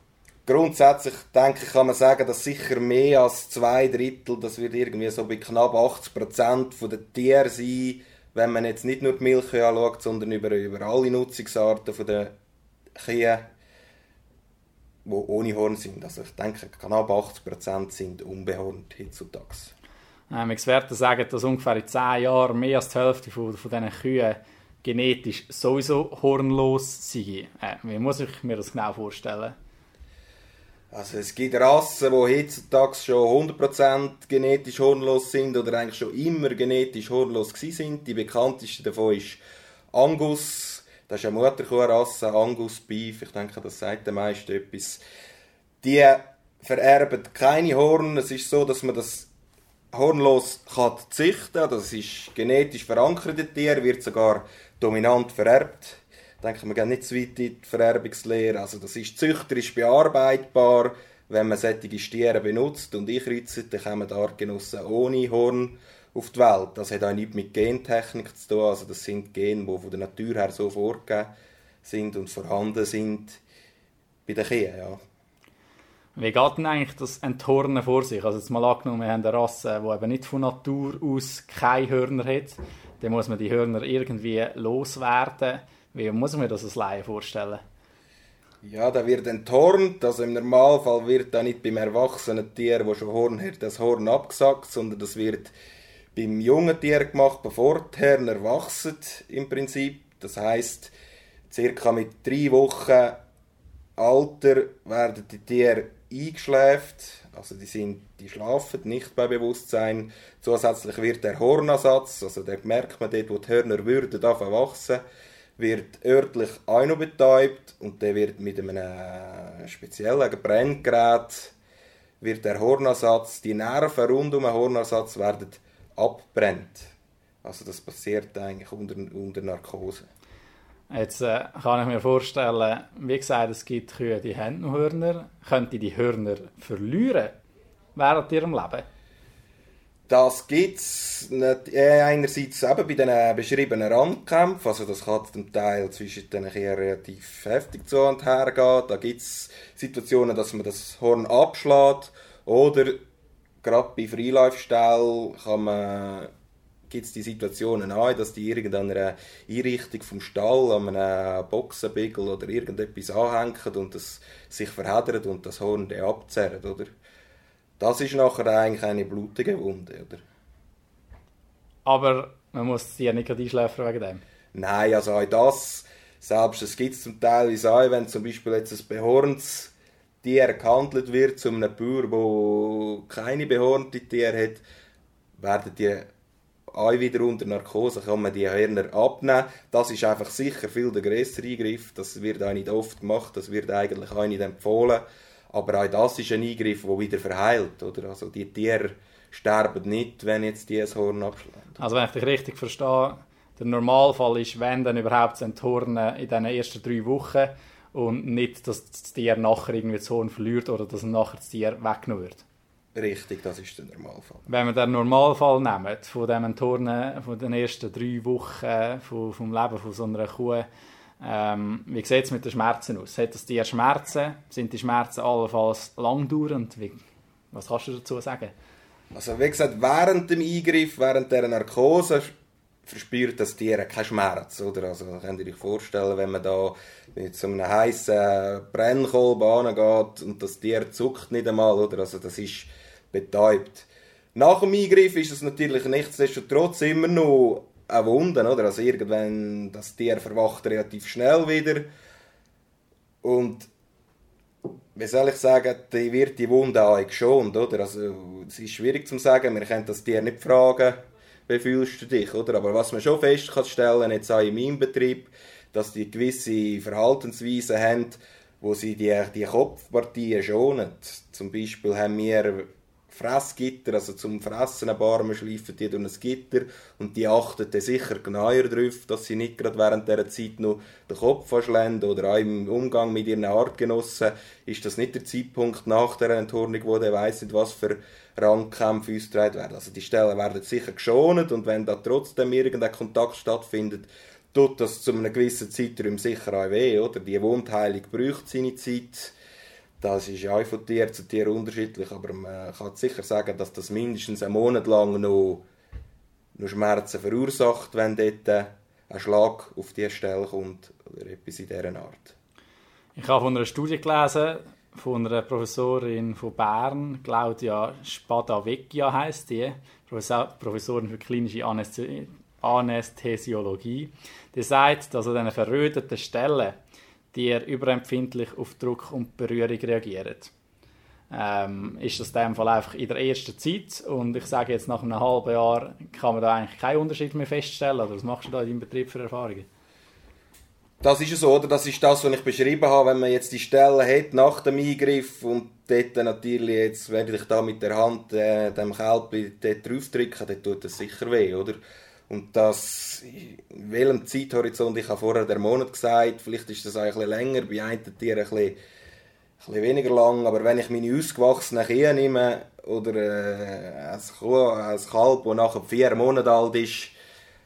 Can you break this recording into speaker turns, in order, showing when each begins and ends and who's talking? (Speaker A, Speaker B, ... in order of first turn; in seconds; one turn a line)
Speaker A: 0.5-12.3
Speaker A: 13.0-13.4
Speaker A: 15.0-19.7
Speaker B: 20.3-29.5
Speaker A: 30.9-39.4
Speaker A: 39.9-45.0
Speaker A: 45.8-49.3
Speaker A: 49.9-71.3
Speaker A: 71.8-73.4
Speaker A: 74.2-75.0
Speaker B: 76.2-87.6
Speaker A: 88.6-95.5
Speaker A: 96.1-100.9
Speaker A: 101.5-103.2
Speaker A: 104.0-115.0
Speaker A: 115.6-121.5
Speaker A: 122.2-126.9
Speaker A: 127.4-130.1
Speaker B: 130.9-137.3
Speaker B: 137.9-138.8
Speaker A: 140.1-153.0
Speaker A: 153.6-156.3
Speaker A: 156.9-166.9
Speaker A: 167.8-170.2
Speaker B: 171.8-174.2
Speaker A: 174.5-184.6
Speaker A: 185.3-186.1
Speaker A: 186.7-201.8
Speaker B: 201.8-212.4
Speaker A: 212.9-214.4
Speaker B: 214.5-220.6
Speaker B: 221.2-227.0
Speaker B: 227.5-228.5
Speaker A: 229.1-232.3
Speaker A: 232.8-251.9
Speaker A: 253.2-253.7
Speaker A: 254.9-299.3
Speaker A: 300.0-305.6
Speaker A: 306.6-312.3
Speaker B: 313.1-326.7
Speaker B: 327.3-330.5
Speaker B: 331.3-339.7
Speaker A: 341.0-358.8
Speaker A: 359.6-367.1